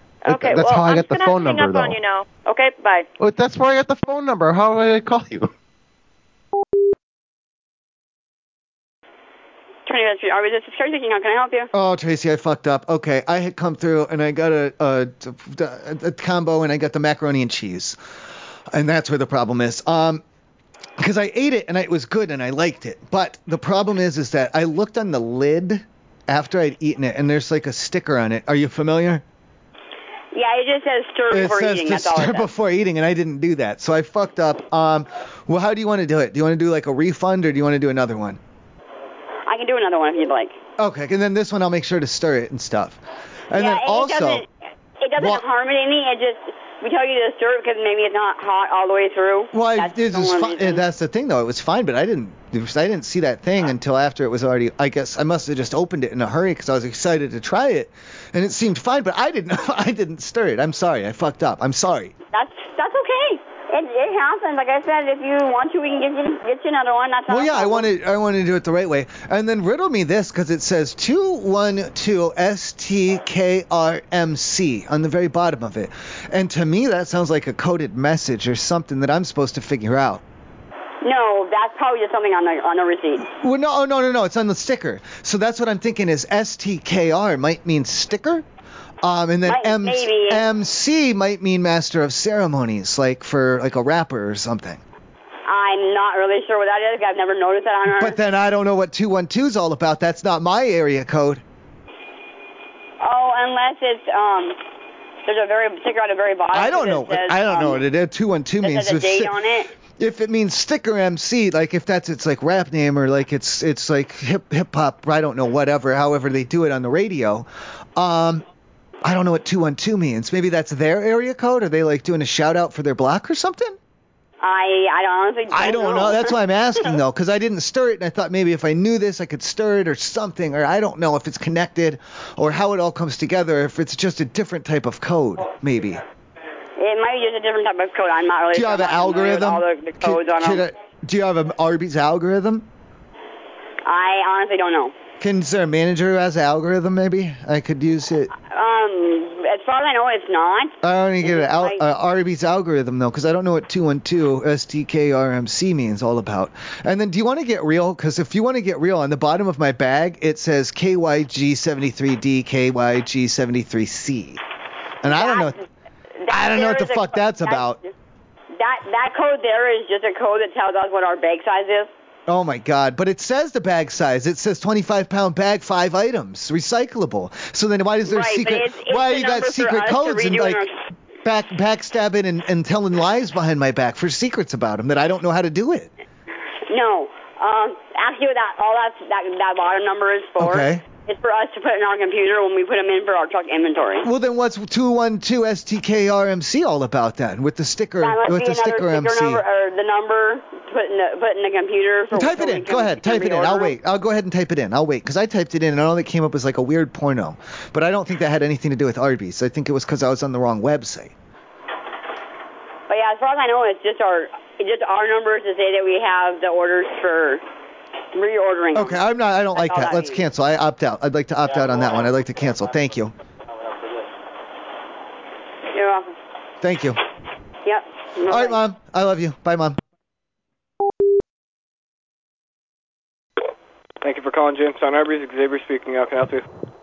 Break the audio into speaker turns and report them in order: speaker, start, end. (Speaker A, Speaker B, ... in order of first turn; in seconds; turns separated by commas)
Speaker A: 0.2-3.1, Speaker B: 0.3-2.0, Speaker B: 3.2-5.5, Speaker C: 9.9-11.7, Speaker D: 11.7-18.0, Speaker D: 18.7-20.2, Speaker D: 21.0-29.2, Speaker C: 30.3-32.5, Speaker D: 31.3-38.4, Speaker C: 39.5-40.6, Speaker D: 40.8-44.4, Speaker C: 43.5-44.5, Speaker C: 45.0-50.8, Speaker D: 45.2-45.4, Speaker D: 49.5-62.1, Speaker C: 62.3-67.9, Speaker D: 67.3-80.2, Speaker C: 81.0-83.2, Speaker D: 83.4-88.5, Speaker D: 89.0-94.8, Speaker C: 89.5-90.4, Speaker C: 95.5-98.2, Speaker D: 97.9-101.4, Speaker C: 103.0-104.6, Speaker C: 105.3-107.8, Speaker D: 106.5-109.4, Speaker C: 108.6-109.7, Speaker D: 109.9-118.5, Speaker D: 119.0-123.8, Speaker C: 124.4-126.3, Speaker D: 125.5-136.0, Speaker C: 136.8-140.7, Speaker D: 138.5-142.7, Speaker C: 143.8-145.0, Speaker D: 145.2-148.3, Speaker C: 148.4-151.8, Speaker D: 150.8-164.4, Speaker D: 165.0-165.6, Speaker C: 165.1-165.6, Speaker C: 166.2-167.9, Speaker D: 166.3-167.8, Speaker C: 168.6-171.9, Speaker D: 172.3-180.6, Speaker C: 178.1-180.7, Speaker D: 181.2-185.9, Speaker C: 186.7-194.1, Speaker D: 190.4-190.8, Speaker D: 194.0-199.4, Speaker C: 198.0-203.8, Speaker D: 202.1-211.1, Speaker C: 212.9-217.4, Speaker C: 218.1-219.0, Speaker D: 218.7-223.1, Speaker C: 219.6-220.2, Speaker C: 225.7-226.1, Speaker D: 226.6-227.0, Speaker C: 227.7-228.6, Speaker D: 228.3-229.8, Speaker E: 234.0-236.4